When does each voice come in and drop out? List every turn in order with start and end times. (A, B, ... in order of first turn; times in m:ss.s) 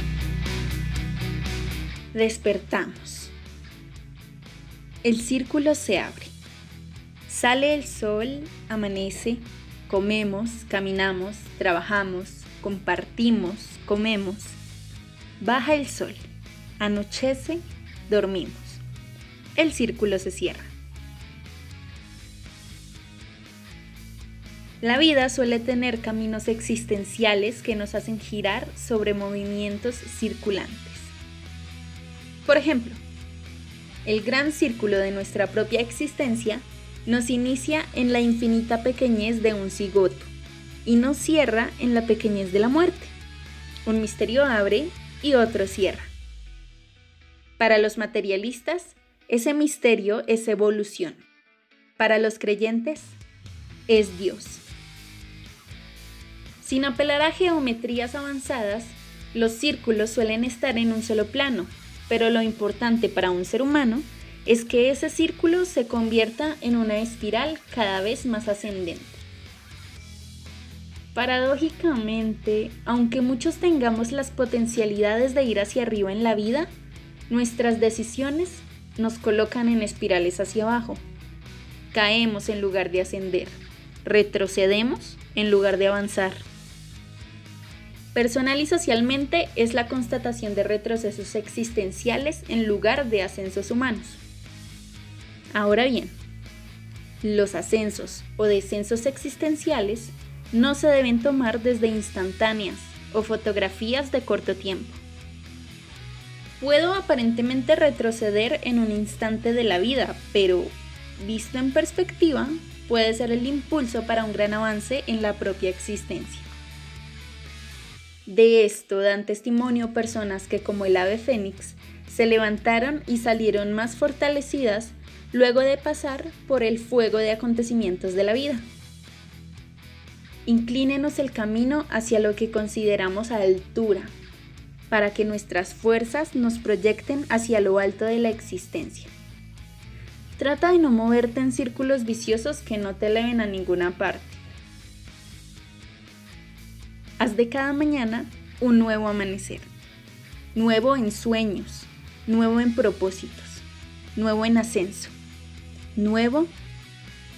0:02.1-0:03.3 A
0:05.0-0:06.3 A
0:07.3-0:14.6 A
0:15.4-0:16.3 A
0:16.8-0:18.8 A
0:19.5-0:20.7 A
0:24.8-0:31.1 A
0:32.4-0:33.0 A
0:34.0-0:40.3 A
0:40.8-0:43.1 A
0:43.8-0:46.1 A
0:47.6-0:51.2 A
0:52.0-0:53.2 A
0:53.9-0:54.6 A
0:56.6-1:09.2 A
1:11.1-1:16.7 A
1:17.3-1:21.0 A
1:21.9-1:26.5 A
1:28.1-1:34.2 A
1:35.5-1:36.2 A
1:37.2-1:45.0 A
1:46.6-1:56.5 A
1:58.2-2:08.7 A
2:10.4-2:14.1 A
2:14.9-2:19.1 A
2:20.4-2:24.4 A
2:27.2-2:29.7 A
2:30.5-2:35.1 A
2:35.9-2:36.5 A